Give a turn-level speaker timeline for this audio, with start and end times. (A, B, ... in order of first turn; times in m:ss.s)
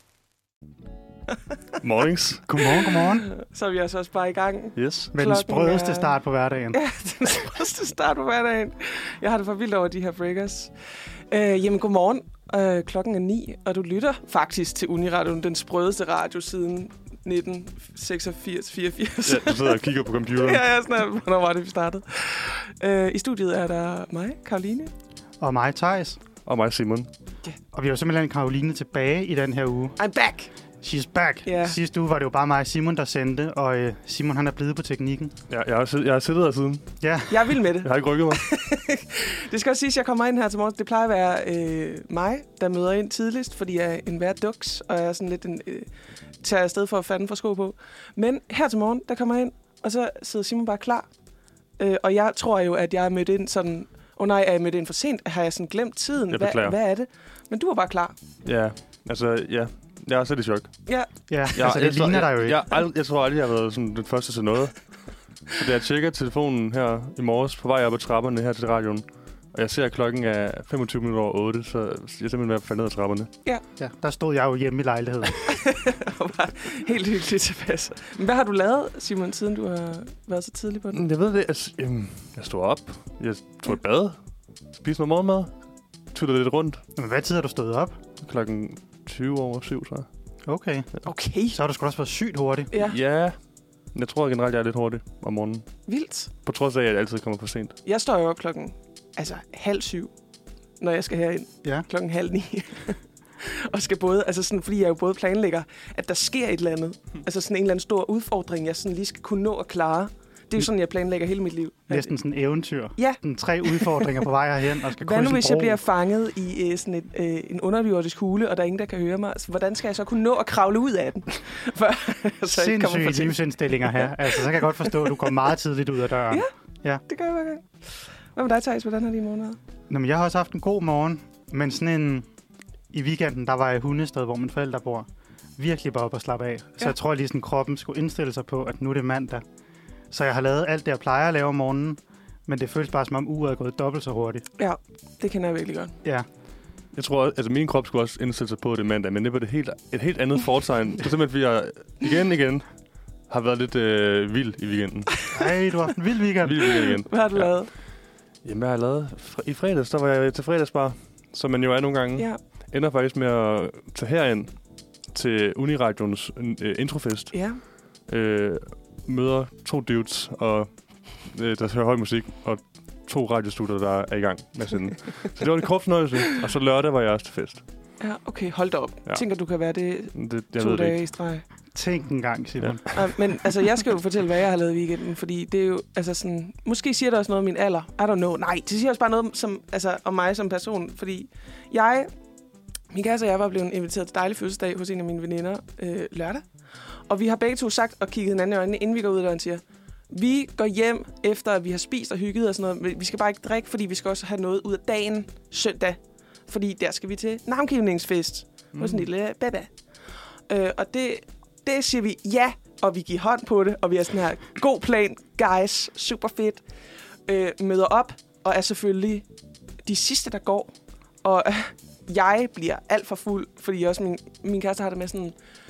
0:01.8-0:02.6 A
0:02.5-0:03.3 B
0:02.6-0:06.2 C
0:04.8-0:05.1 A
0:05.1-0:06.8 B
0:06.7-0:10.7 C
0:11.3-0:24.9 C
0:19.2-0:20.7 A
0:25.4-0:26.2 B
0:26.4-0:27.1 A
0:27.7-0:29.9 B
0:30.0-0:30.5 C
0:30.8-0:35.3 B
0:31.4-0:31.8 C
0:35.5-0:36.9 A
0:37.0-0:37.5 B
0:37.3-0:45.9 C
0:37.8-0:38.4 A
0:46.4-0:51.1 C
0:51.8-0:58.1 C
0:56.3-0:56.7 A
0:58.4-1:00.7 A
1:01.3-1:02.6 B
1:01.5-1:04.8 A
1:05.5-1:13.3 A
1:13.8-1:15.5 B
1:15.4-1:21.0 C
1:20.9-1:24.2 A
1:24.7-1:25.5 A
1:26.1-1:26.8 A
1:27.0-1:28.0 B
1:28.2-1:30.1 A
1:30.4-1:30.9 B
1:31.0-1:31.6 C
1:31.5-1:32.7 B
1:32.7-1:33.0 C
1:32.8-1:33.4 A
1:33.9-1:35.7 A
1:35.9-1:36.3 C
1:36.4-1:37.7 A
1:37.8-1:40.1 C
1:40.8-1:52.1 C
1:51.9-1:55.8 B
1:53.0-1:54.2 C
1:55.0-2:05.4 C
2:02.5-2:07.0 B
2:07.0-2:09.6 C
2:09.9-2:12.3 B
2:12.9-2:19.4 B
2:20.1-2:24.4 B
2:24.6-2:25.9 C
2:26.9-2:32.6 A
2:33.3-2:35.1 A
2:35.3-2:36.6 B
2:36.4-2:37.5 A
2:36.6-2:37.7 C
2:38.4-2:44.5 A
2:45.1-2:47.3 A
2:47.3-2:47.6 C
2:48.1-2:57.6 A
2:58.0-3:01.4 C
3:00.1-3:01.0 A
3:01.7-3:03.0 B
3:02.9-3:12.1 C
3:12.9-3:29.7 C
3:28.7-3:29.0 A
3:30.5-3:36.6 C
3:37.3-3:39.2 C
3:39.8-3:45.4 C